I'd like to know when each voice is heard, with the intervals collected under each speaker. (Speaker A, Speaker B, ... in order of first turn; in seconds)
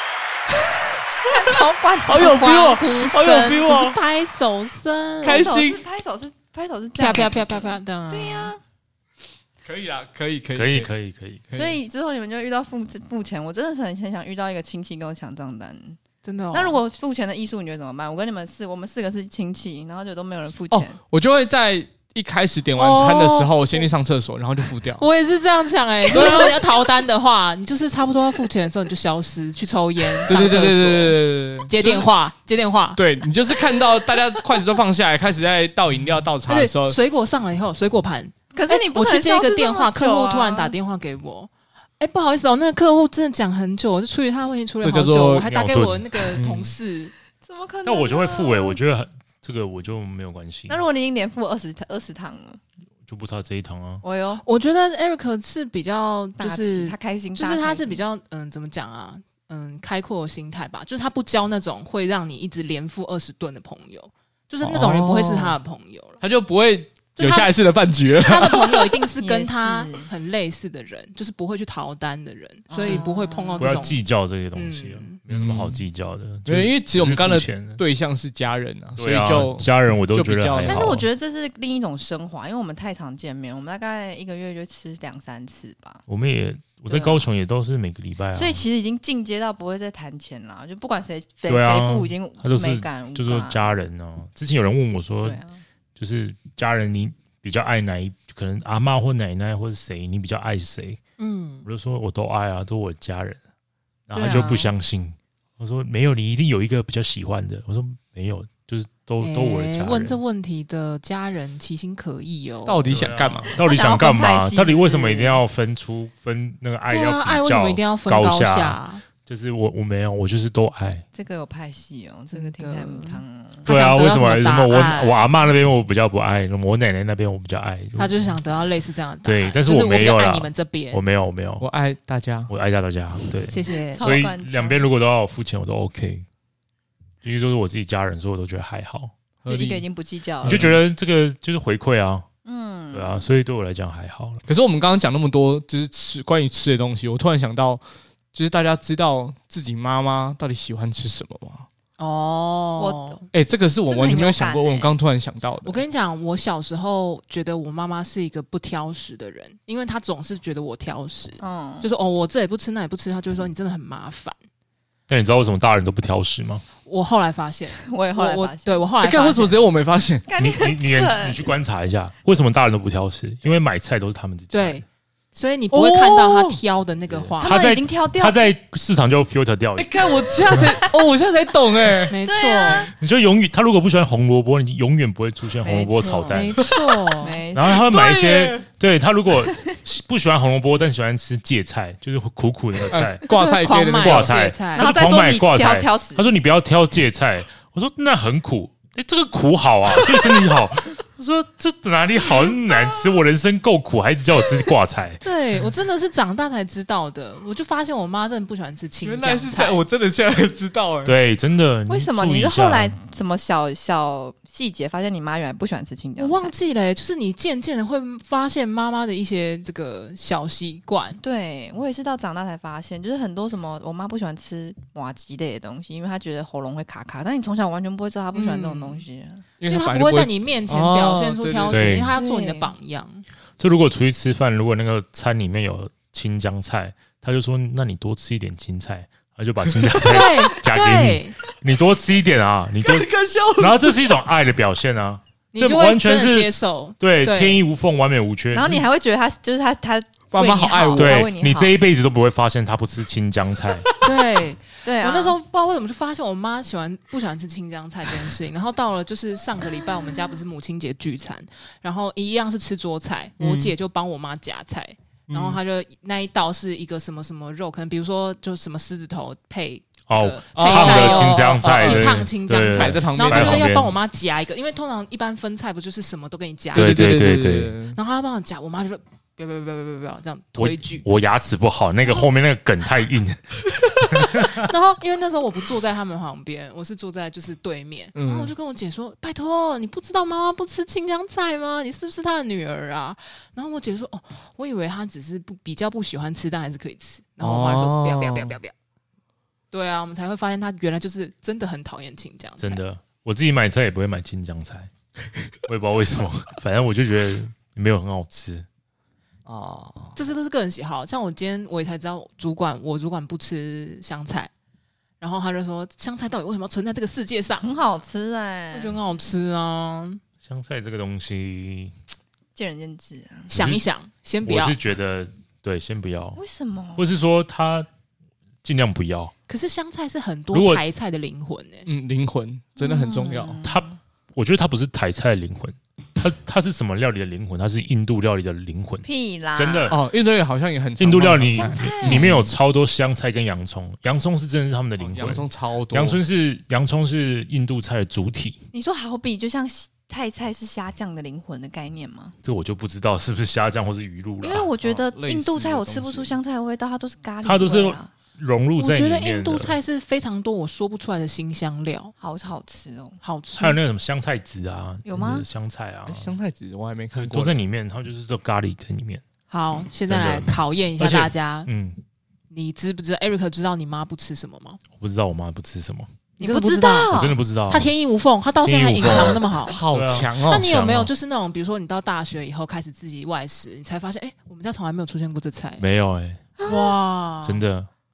Speaker A: 1.2-2.8, 5.2-8.6, 11.6-16.0, 16.5-21.0, 38.5-40.8, 47.4-48.8, 50.7-52.6, 54.0-54.4, 56.4-58.0, 69.2-70.1, 72.7-73.8, 80.7-86.0, 86.9-87.3, 88.3-93.8, 95.2-95.6, 104.1-104.7, 113.6-115.4, 121.1-123.7, 133.9-134.9, 139.5-140.7, 142.4-143.3, 152.8-153.2, 153.9-154.9, 161.4-161.9, 167.8-168.8, 170.3-171.4, 177.4-178.5, 182.2-182.9, 185.6-186.4, 187.2-187.9, 194.7-196.3, 211.9-216.5, 221.2-229.4, 232.2-232.7, 248.5-251.7, 254.8-255.4, 317.6-319.0, 322.6-323.5, 326.4-327.1, 332.8-334.0, 339.0-339.9, 341.5-342.4, 348.7-352.4, 354.4-358.1, 362.2-363.2, 365.1-365.5, 376.4-377.4
Speaker B: 2.0-4.0, 5.2-5.8, 9.6-10.9, 11.5-11.8, 20.7-25.0, 26.1-26.6, 30.3-32.1, 33.0-37.0, 44.8-45.5, 46.4-46.8, 64.6-65.6, 66.2-69.0, 75.3-75.8, 76.5-81.0, 112.7-113.5, 131.6-132.5, 139.4-139.8, 140.4-140.8, 144.5-151.7, 153.3-155.8, 169.0-170.3, 175.7-176.6, 179.8-182.2, 187.8-188.6, 192.9-194.4, 200.0-200.4, 209.0-211.2, 229.6-232.0, 242.8-244.2, 250.3-251.3, 263.4-263.7, 265.3-265.6, 270.5-273.7, 276.8-278.0, 288.2-288.5, 297.4-298.6, 309.5-310.2, 331.9-333.6, 339.9-342.5, 345.0-346.2, 354.8-356.4, 366.1-367.6, 379.1-380.7
Speaker C: 2.1-5.5, 7.0-8.6, 16.2-16.8, 22.8-23.9, 25.0-33.0, 36.5-47.1, 54.4-66.2, 67.2-67.5, 68.2-74.0, 74.5-75.2, 101.2-101.7, 109.2-112.9, 116.9-119.0, 122.3-125.2, 128.0-131.0, 133.5-134.3, 152.0-153.2, 155.6-164.4, 166.8-169.6, 174.5-177.6, 182.1-182.9, 186.3-187.4, 193.3-194.9, 205.2-209.8, 216.2-221.2, 228.3-229.0, 229.7-233.3, 240.0-241.4, 245.5-247.7, 254.0-277.0, 277.9-281.1, 284.3-298.7, 299.7-302.8, 310.2-314.5, 315.2-317.7, 318.7-320.2, 323.5-324.8, 329.5-331.9, 358.8-362.1, 363.2-363.8, 369.5-371.7, 372.5-374.8, 376.4-377.1, 377.7-379.8, 380.4-385.9, 386.6-387.6
Speaker D: 10.6-11.5, 45.5-46.2, 47.9-50.8, 53.1-54.0, 73.6-77.8, 79.0-81.1, 86.1-88.6, 91.5-95.4, 96.0-101.0, 101.7-103.4, 104.1-110.2, 112.8-121.1, 123.7-128.4, 129.2-131.7, 132.5-136.3, 137.2-139.1, 140.4-142.3, 142.9-144.4, 165.1-166.6, 170.4-174.8, 177.4-180.8, 183.0-186.7, 187.5-193.2, 194.0-205.2, 211.1-213.0, 231.7-232.2, 233.6-248.9, 251.0-253.9, 270.1-273.9, 276.7-277.8, 280.6-284.7, 302.6-304.9, 305.7-308.7, 320.4-321.9, 323.5-323.8, 324.4-326.4, 327.0-327.9, 328.6-329.3, 330.5-330.8, 333.6-340.0, 341.0-348.6, 352.4-354.7, 357.4-359.8, 363.6-366.4, 367.1-369.2, 370.1-372.0, 375.0-376.1, 377.1-377.9, 378.6-381.1, 385.8-386.5, 387.4-387.9